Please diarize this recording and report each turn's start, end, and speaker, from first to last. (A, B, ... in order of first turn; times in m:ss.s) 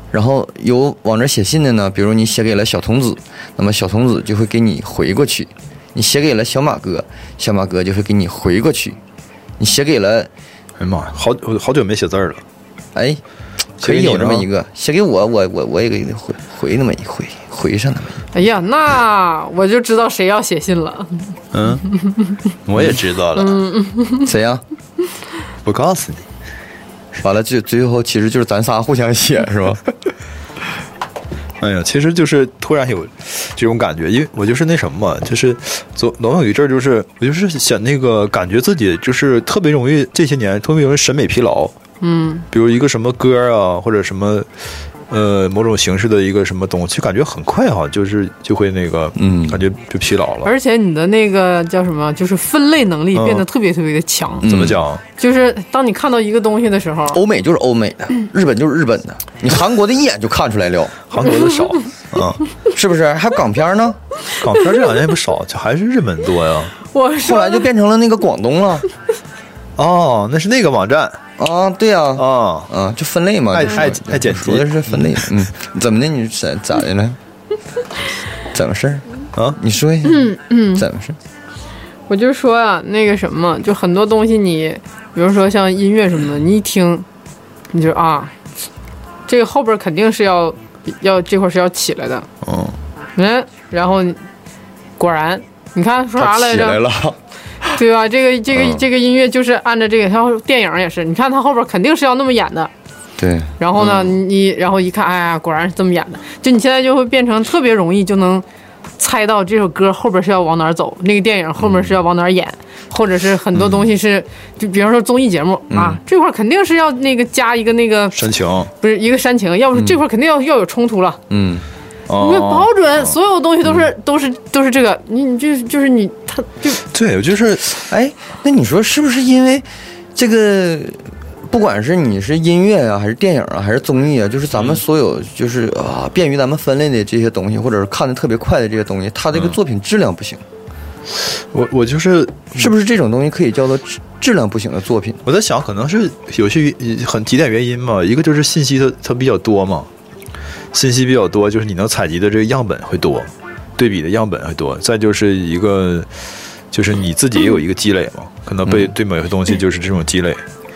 0:00.1-0:09.0 A
0:09.6-0:10.3 A
0:10.8-0:12.4 B
0:12.9-0:13.2 A
0:13.8-0:18.2 A
0:13.8-0:14.5 B
0:18.3-0:21.3 C
0:21.5-0:21.8 B
0:22.0-0:22.3 C
0:22.6-0:23.6 B
0:23.3-0:24.3 C
0:24.2-0:24.6 A
0:25.6-0:26.2 B
0:27.2-0:29.8 A
0:31.6-0:41.7 B
0:42.0-0:42.4 C
0:42.5-0:44.5 B
0:45.1-0:50.5 B
0:49.2-0:49.6 A
0:50.4-0:54.4 C
0:53.1-0:53.4 B
0:54.4-0:54.8 A
0:54.4-0:55.0 B
0:55.2-0:57.2 C
0:57.1-1:01.0 A
1:01.1-1:02.4 B
1:02.7-1:04.0 A
1:04.4-1:06.7 B
1:06.8-1:07.6 C
1:07.2-1:08.8 A
1:09.8-1:11.2 B
1:11.4-1:17.2 A
1:12.2-1:12.7 B
1:13.5-1:15.3 B
1:18.5-1:21.2 A
1:20.0-1:20.8 C
1:22.1-1:27.0 C
1:27.7-1:28.3 C
1:29.3-1:32.3 C
1:32.4-1:32.8 B
1:33.2-1:34.2 C
1:35.0-1:36.8 C
1:36.2-1:37.2 A
1:37.6-1:42.7 C
1:38.5-1:38.8 A
1:43.2-1:44.0 A
1:43.6-1:48.4 C
1:49.0-1:58.2 C
1:55.7-1:56.0 A
1:58.1-1:58.7 B
1:58.8-2:01.2 C
2:01.3-2:01.6 A
2:02.1-2:02.7 B
2:02.2-2:06.8 C
2:06.9-2:07.8 B
2:07.9-2:20.4 A
2:14.5-2:14.8 B
2:21.3-2:22.7 B
2:22.5-2:25.2 A
2:25.2-2:29.9 B
2:30.7-2:36.1 B
2:36.7-2:40.4 B
2:38.6-2:38.9 A